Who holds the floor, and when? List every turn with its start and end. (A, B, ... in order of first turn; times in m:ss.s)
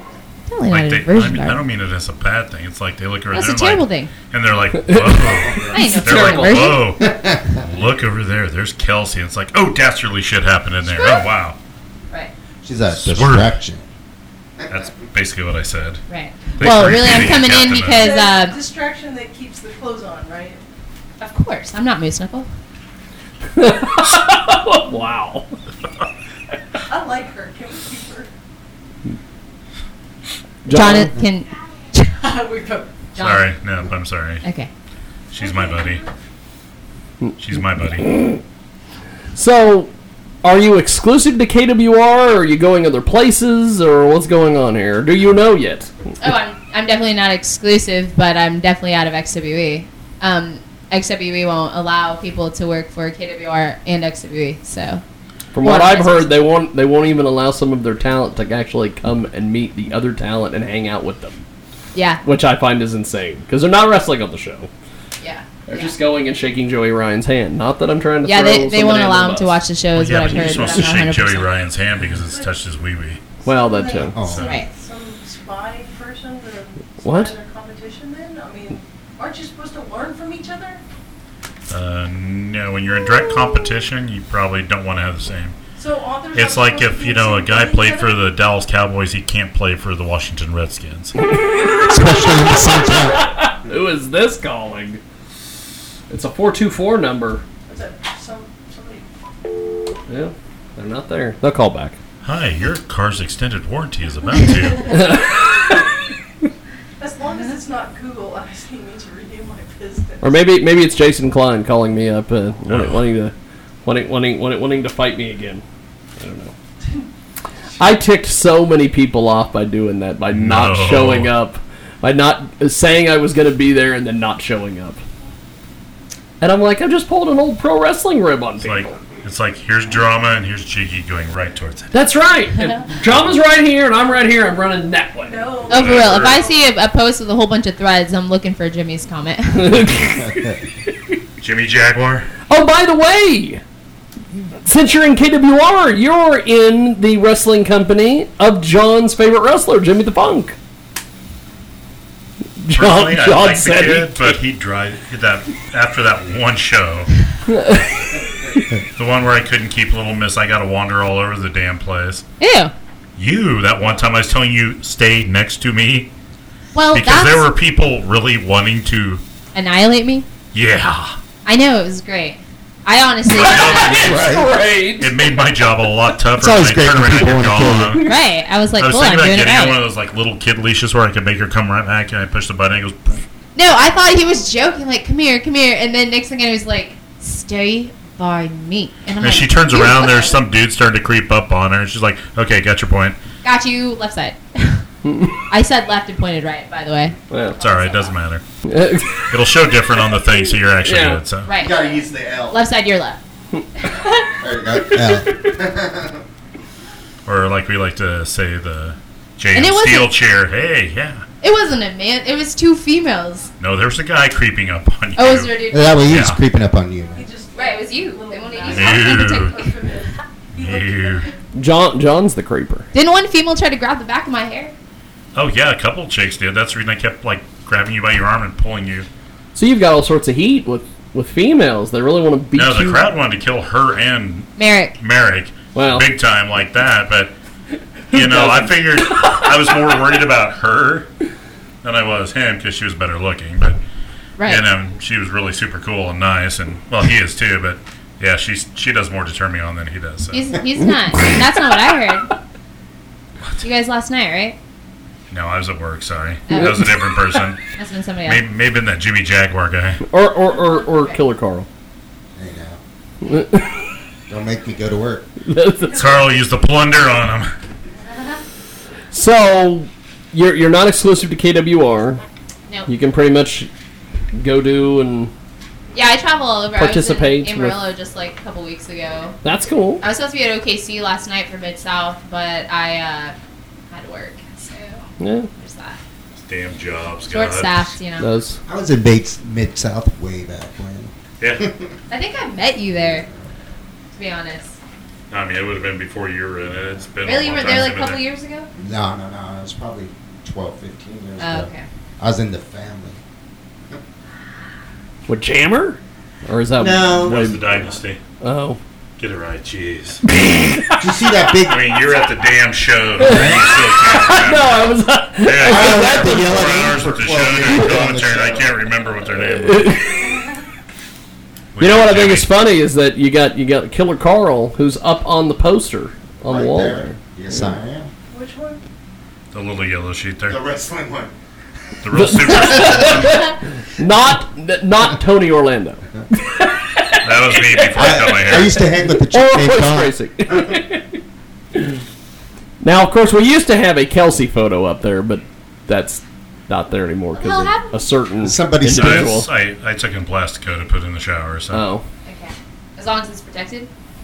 0:00.5-0:01.6 A
0:00.7-0:11.6 B
0:03.3-0:04.1 A
0:04.8-0:05.3 C
0:05.3-0:05.8 D
0:05.7-0:06.8 A
0:05.9-0:06.7 C
0:07.0-0:07.7 D
0:10.9-0:11.2 A
0:12.6-0:13.8 D
0:12.9-0:13.6 B
0:14.6-0:14.9 D
0:14.7-0:16.0 B
0:16.1-0:18.6 A
0:16.6-0:18.2 B
0:17.9-0:20.6 E
0:21.2-0:22.5 A
0:23.6-0:25.5 C
0:26.9-0:28.3 E
0:30.7-0:31.1 C
0:30.7-0:32.2 A
0:32.2-0:33.0 E
0:33.2-0:33.5 A
0:33.2-0:34.4 B
0:34.4-0:34.7 A
0:35.3-0:36.0 B
0:35.4-0:36.0 E
0:37.4-0:38.1 B
0:38.1-0:38.4 C
0:39.4-0:39.9 C
0:40.4-0:45.9 C
0:46.2-0:55.0 A
0:55.5-1:01.4 C
0:55.6-0:56.4 A
1:01.9-1:02.2 A
1:02.2-1:04.7 C
1:05.2-1:06.0 A
1:05.7-1:09.6 C
1:08.2-1:11.5 A
1:10.0-1:13.2 B
1:13.4-1:14.2 C
1:13.5-1:20.8 E
1:14.2-1:14.5 D
1:14.2-1:14.6 B
1:14.4-1:14.7 A
1:17.0-1:17.3 C
1:21.7-1:25.6 B
1:25.8-1:28.3 E
1:26.3-1:31.1 B
1:31.8-1:33.2 D
1:33.4-1:35.0 C
1:36.1-1:37.4 C
1:37.7-1:39.1 E
1:40.1-1:42.0 C
1:42.2-1:45.0 B
1:44.9-1:45.4 C
1:47.0-1:50.3 E
1:50.2-1:53.3 C
1:52.7-1:53.0 B
1:53.8-1:55.6 C
1:56.2-1:56.5 C
1:57.8-2:05.0 C
2:00.3-2:01.3 B
2:06.4-2:09.0 C
2:08.6-2:11.9 B
2:11.9-2:15.5 C
2:15.2-2:16.6 E
2:15.7-2:19.8 A
2:15.7-2:16.4 B
2:19.6-2:20.5 C
2:21.4-2:22.3 B
2:22.5-2:23.6 C
2:24.6-2:30.6 C
2:32.6-2:34.4 C
2:32.8-2:37.1 B
2:37.5-2:38.0 C
2:39.0-2:42.2 B
2:42.4-2:42.7 A
2:43.2-2:46.1 B
2:46.7-2:47.5 A
2:46.9-2:49.2 B
2:49.6-2:50.3 A
2:50.5-2:51.2 B
2:51.4-2:54.2 A
2:53.3-2:55.1 C
2:53.4-2:54.4 B
2:54.0-2:54.5 D
2:55.0-2:58.1 B
2:56.4-2:58.0 D
2:58.0-2:59.8 A
2:58.8-3:03.2 B
3:03.6-3:10.4 A
3:09.2-3:13.2 B
3:13.4-3:14.8 A
3:15.0-3:15.4 C
3:15.5-3:18.2 A
3:17.3-3:17.6 C
3:17.6-3:18.4 B
3:18.7-3:19.3 C
3:19.3-3:21.5 B
3:20.8-3:21.2 C
3:21.5-3:23.2 A
3:21.6-3:22.6 D
3:24.3-3:26.2 D
3:27.3-3:31.2 B
3:29.5-3:30.1 A
3:31.4-3:33.5 A
3:33.6-3:35.6 B
3:35.2-3:36.1 A
3:35.7-3:37.3 D
3:36.1-3:36.4 B
3:37.1-3:41.3 E
3:37.6-3:39.9 A
3:38.7-3:39.6 B
3:40.6-3:41.3 B
3:41.6-3:42.9 C
3:42.9-3:44.7 A
3:45.4-3:49.1 B
3:49.6-3:53.0 C
3:52.5-3:57.3 B
3:54.6-3:55.0 A
3:55.7-3:56.1 C
3:58.1-3:59.5 C
3:58.1-4:01.1 B
4:01.8-4:03.8 B
4:04.4-4:04.7 A
4:04.4-4:10.5 B
4:10.3-4:12.3 A
4:13.6-4:14.6 A
4:15.3-4:17.6 B
4:16.5-4:16.8 A
4:17.8-4:18.4 A
4:18.3-4:20.0 B
4:20.1-4:21.7 C
4:20.7-4:21.1 A
4:22.4-4:22.8 D
4:23.2-4:23.7 C
4:24.3-4:25.3 D
4:25.5-4:26.1 C
4:25.9-4:27.5 B
4:29.1-4:32.2 C
4:32.9-4:33.7 C
4:34.4-4:35.3 C
4:35.9-4:39.4 A
4:36.8-4:37.8 C
4:39.4-4:40.0 C
4:40.0-4:43.4 A
4:43.9-4:46.0 A
4:45.2-4:45.5 C
4:46.4-4:48.0 B
4:47.3-4:48.3 A
4:48.2-4:48.6 C
4:48.7-4:51.9 D
4:51.4-4:51.7 B
4:52.1-4:53.3 A
4:53.0-4:53.4 D
4:54.2-4:54.8 A
4:55.3-4:58.2 B
4:57.2-4:58.7 A
4:58.8-5:03.2 D
5:01.4-5:01.9 A
5:05.3-5:07.6 C
5:06.8-5:07.5 D
5:07.2-5:08.2 B
5:08.4-5:08.8 C
5:09.2-5:10.2 B
5:10.4-5:11.0 C
5:11.0-5:11.9 D
5:11.6-5:19.9 B
5:13.2-5:16.9 C
5:13.3-5:13.6 D
5:15.6-5:18.7 D
5:17.7-5:18.0 C
5:19.3-5:20.2 C
5:21.8-5:22.5 B
5:21.8-5:27.7 C
5:26.4-5:28.1 D
5:28.3-5:28.8 E
5:29.5-5:30.6 B
5:30.5-5:31.3 D
5:32.0-5:33.4 B
5:32.2-5:38.8 C
5:32.5-5:33.4 D
5:37.2-5:38.8 B
5:38.0-5:40.8 D
5:39.3-5:41.0 C
5:42.8-5:49.5 C
5:47.4-5:47.9 A
5:48.4-5:49.4 D
5:49.0-5:51.8 B
5:51.7-5:52.0 C
5:52.2-5:53.9 A